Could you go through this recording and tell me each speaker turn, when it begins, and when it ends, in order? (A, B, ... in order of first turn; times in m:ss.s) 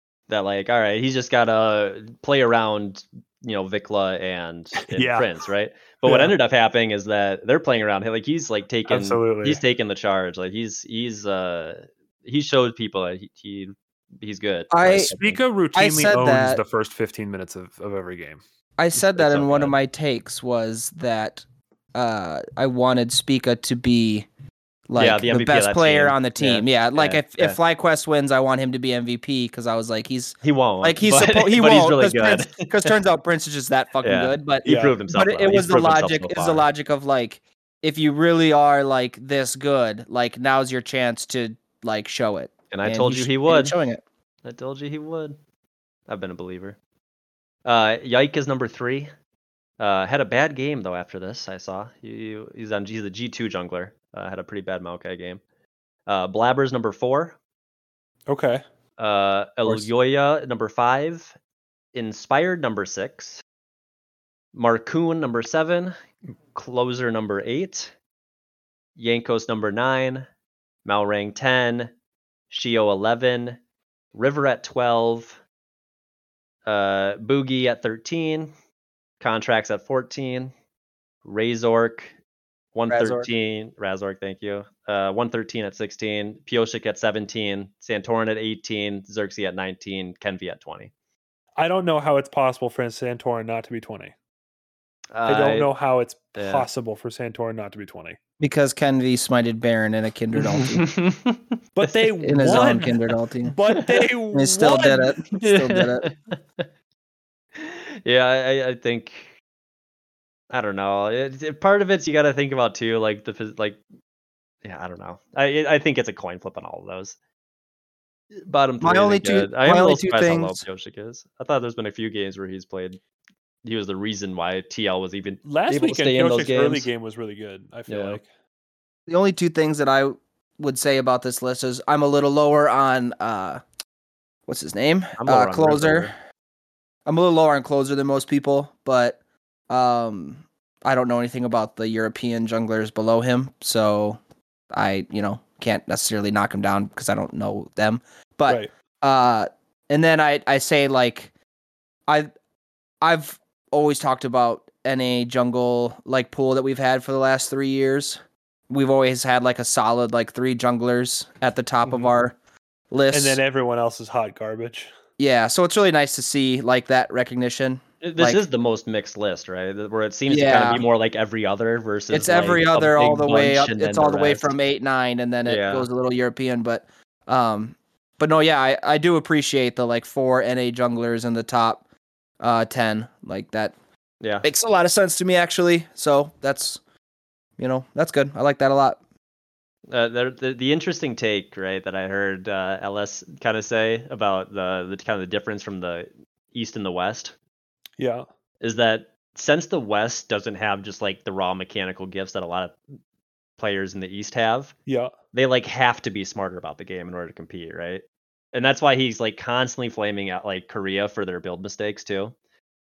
0:00.3-0:15.4 A
0:04.9-0:05.3 B
0:06.0-0:06.3 B
0:08.9-0:09.6 B
0:14.7-0:15.1 C
0:15.1-0:18.4 B
0:15.7-0:16.6 C
0:18.8-0:21.4 C
0:19.0-0:19.7 A
0:21.9-0:24.3 C
0:24.9-0:44.0 C
0:25.0-0:27.6 A
0:30.4-0:32.9 A
0:34.0-0:36.6 A
0:34.6-0:35.0 B
0:42.7-0:43.8 A
0:44.4-0:45.4 A
0:46.1-0:46.8 A
0:47.6-0:49.1 A
0:49.8-0:55.4 A
0:56.1-0:57.4 A
0:58.3-0:58.6 B
0:59.0-1:01.3 A
1:01.9-1:03.4 A
1:04.5-1:05.9 A
1:06.5-1:07.9 A
1:09.0-1:10.3 A
1:10.8-1:11.9 A
1:12.5-1:13.6 A
1:14.1-1:15.4 A
1:16.6-1:18.5 A
1:19.2-1:20.5 A
1:21.2-1:22.1 A
1:22.7-1:30.9 A
1:22.9-1:23.3 C
1:31.6-1:34.1 B
1:35.1-1:35.7 A
1:35.2-1:38.2 B
1:36.3-1:36.6 A
1:38.4-1:40.9 C
1:40.4-1:41.9 A
1:41.8-1:45.1 B
1:42.2-1:43.5 C
1:43.7-1:44.1 A
1:44.3-1:46.1 C
1:45.4-1:46.7 A
1:47.6-1:49.3 A
1:50.5-1:53.8 A
1:54.6-1:57.2 A
1:58.4-2:03.0 A
1:58.8-2:00.6 C
2:03.6-2:06.9 A
2:05.4-2:08.3 B
2:07.9-2:08.2 A
2:09.1-2:13.6 C
2:14.5-2:16.1 C
2:15.2-2:16.1 A
2:17.0-2:19.2 C
2:19.7-2:24.2 C
2:24.7-2:31.3 C
2:33.0-2:42.3 C
2:42.9-2:43.4 C
2:43.1-2:44.9 B
2:45.2-2:48.4 C
2:48.0-2:54.5 A
2:50.3-2:50.8 C
2:52.1-3:01.8 C
2:55.4-2:55.9 A
3:02.4-3:03.7 C
3:04.4-3:06.8 C
3:07.6-3:09.0 C
3:09.9-3:17.3 A
3:18.0-3:18.3 B
3:18.6-3:22.8 A
3:23.6-3:24.7 A
3:24.9-3:25.1 B
3:25.3-3:32.3 A